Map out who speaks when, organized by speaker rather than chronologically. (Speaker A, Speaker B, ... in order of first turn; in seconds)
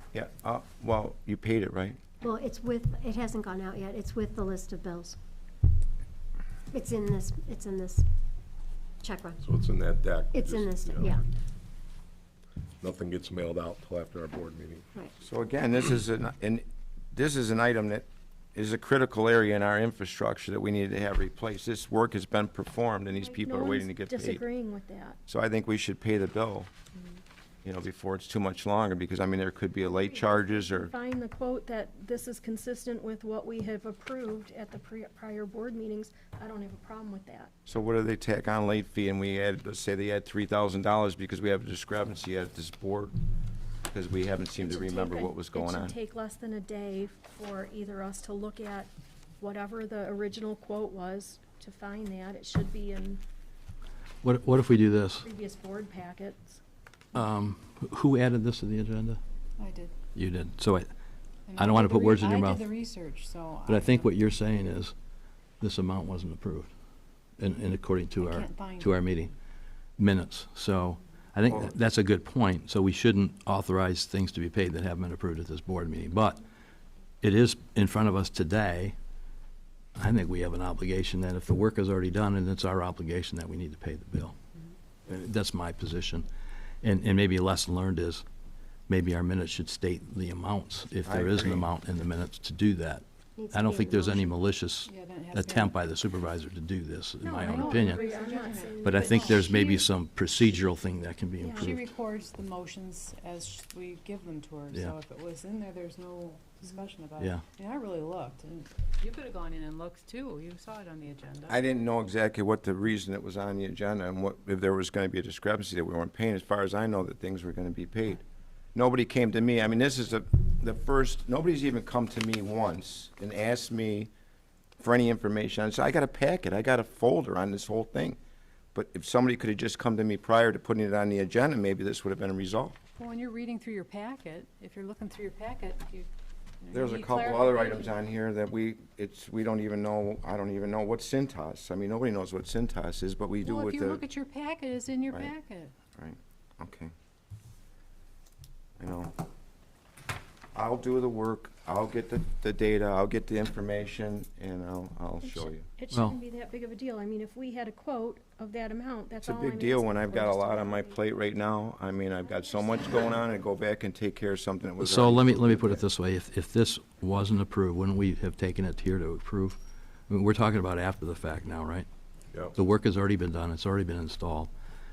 Speaker A: 0.1-2.0, 15.2-24.4, 25.3-26.7, 27.6-30.9, 37.6-43.1, 43.9-45.9, 91.0-91.7, 111.5-118.2, 118.7-124.1, 124.8-128.2, 128.7-132.8, 136.7-144.0, 146.0-146.9, 148.8-149.1, 150.5-155.7, 159.2-165.8
Speaker B: 2.2-5.2, 6.7-8.0, 9.0-9.4, 10.3-11.2, 93.4-94.4
Speaker C: 9.4-11.2, 12.8-14.8
Speaker D: 23.1-25.2, 29.8-37.5, 44.6-53.2, 55.2-56.6, 97.2-99.8, 101.4-101.7, 155.2-161.0, 162.6-163.1
Speaker E: 54.2-55.3, 57.1-59.2, 60.1-60.9, 61.5-62.7, 63.6-64.9, 65.6-66.7, 67.4-69.3, 70.0-76.4, 77.2-78.9, 79.9-84.3, 85.0-86.3, 86.8-88.2, 88.9-98.1, 98.8-101.8, 107.2-107.4, 155.9-156.2, 164.8-169.6, 170.1-171.9, 172.5-174.5
Speaker F: 59.6-59.9, 61.5-64.1, 68.2-69.0, 94.8-95.8, 97.5-99.5, 101.6-111.6, 133.0-136.1, 136.6-137.9, 143.4-145.7